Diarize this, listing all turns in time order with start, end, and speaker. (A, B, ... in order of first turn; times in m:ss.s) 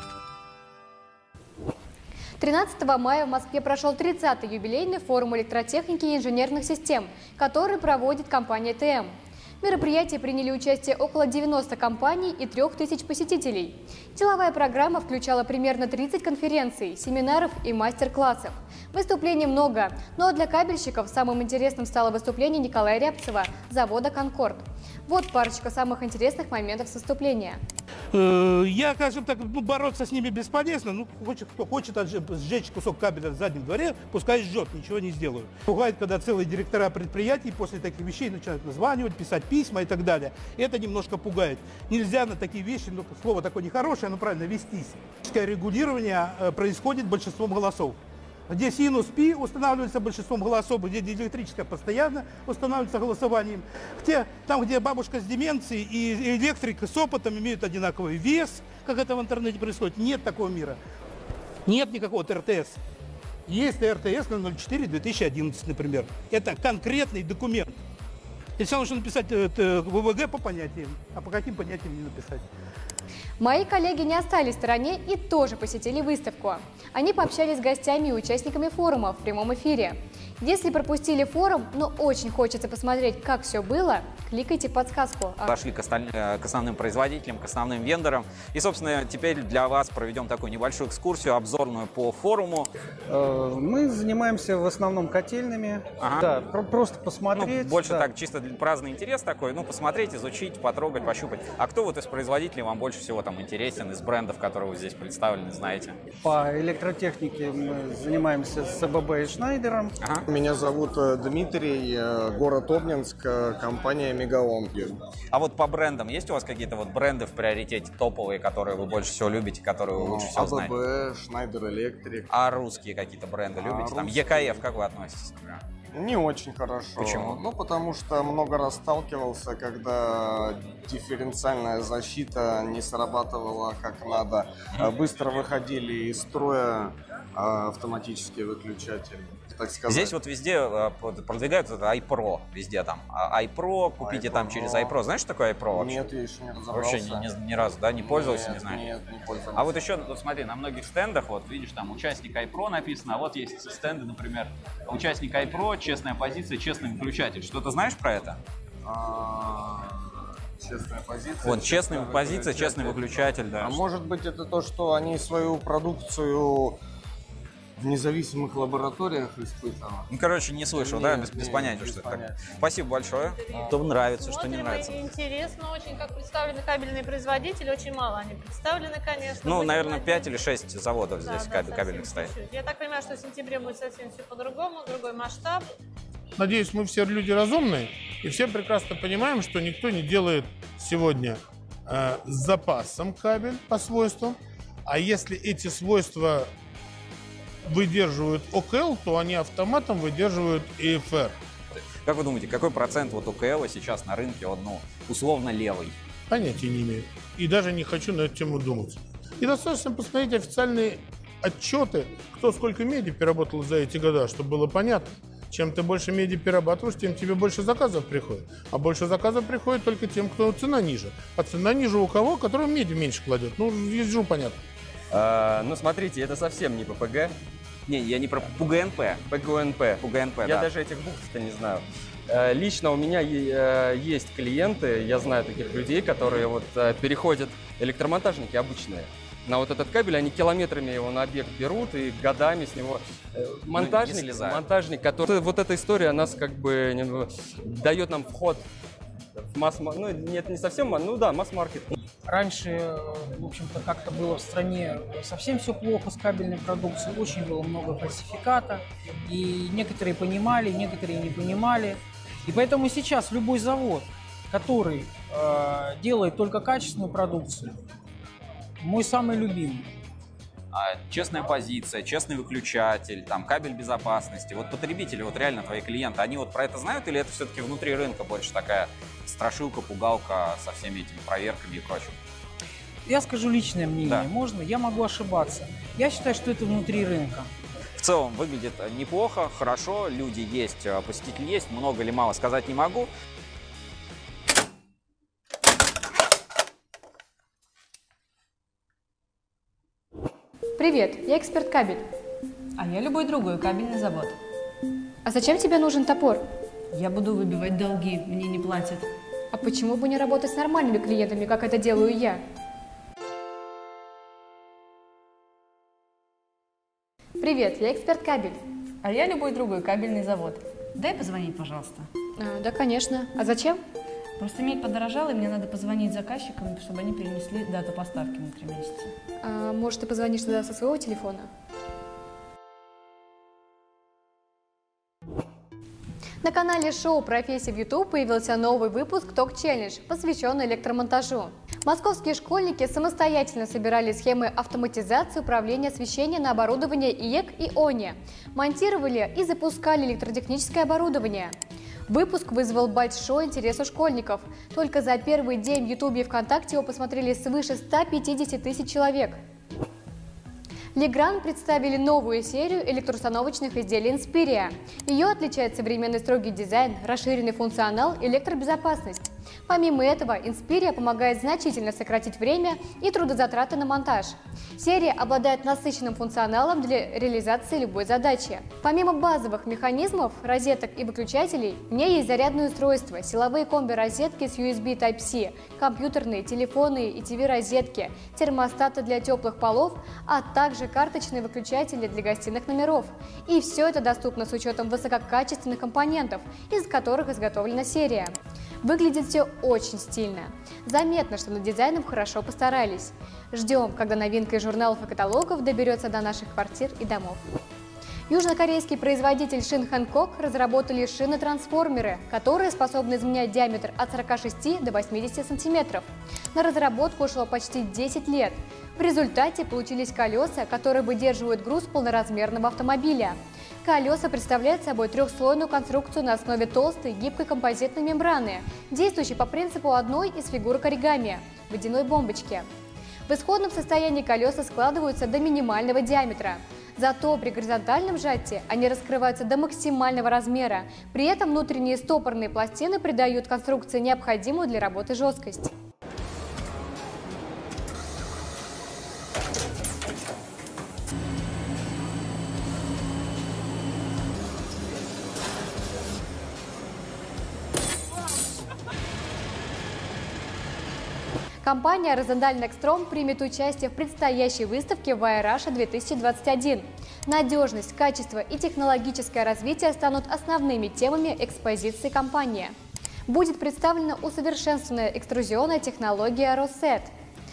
0:02.4-0:27.6 A
0:28.1-0:48.0 B
0:48.5-1:00.8 B
1:01.7-1:02.8 B
1:03.5-1:07.7 B
1:08.6-1:12.4 B
1:13.4-1:25.6 A
1:25.4-1:32.7 C
1:33.1-1:38.1 D
1:36.0-1:36.4 C
1:37.3-1:46.0 C
1:46.2-1:49.9 D
1:50.3-1:55.0 E
1:55.3-2:00.8 C
2:00.0-2:02.3 E
2:02.3-2:05.6 C
2:03.6-2:04.7 E
2:05.9-2:20.2 E
2:07.0-2:07.4 C
2:19.9-2:26.0 C
2:24.0-2:25.0 E
2:25.7-2:27.3 E
2:26.7-2:28.9 C
2:28.0-2:29.9 E
2:29.5-2:38.4 C
2:38.8-2:46.8 E
2:41.4-2:43.8 C
2:47.8-2:50.1 E
2:50.1-2:55.1 C
2:50.7-2:52.6 E
2:53.2-3:00.3 F
2:59.4-3:02.3 C
3:01.2-3:05.6 F
3:06.4-3:16.5 G
3:17.7-3:21.3 G
3:22.0-3:26.0 C
3:26.3-3:44.6 G
3:45.1-3:47.3 H
3:47.9-3:49.2 C
3:49.3-4:08.6 H
3:49.8-3:50.7 C
4:03.7-4:04.7 C
4:09.4-4:12.0 H
4:12.3-4:27.8 I
4:28.8-4:29.9 I
4:30.7-4:42.2 C
4:43.0-4:47.5 I
4:44.0-4:44.3 C
4:48.0-4:53.1 C
5:00.8-5:02.0 A
5:02.8-5:04.3 J
5:05.2-5:06.4 A
5:06.9-5:09.0 J
5:09.5-5:12.4 A
5:17.4-5:18.6 A
5:19.0-5:22.0 J
5:22.4-5:23.8 A
5:24.4-5:29.1 J
5:29.4-5:31.5 A
5:36.4-5:51.5 A
5:52.1-5:59.4 A
6:00.9-6:47.4 A
6:48.3-7:12.6 A
7:13.3-7:25.7 A
7:41.6-7:52.7 A
7:53.3-7:57.1 A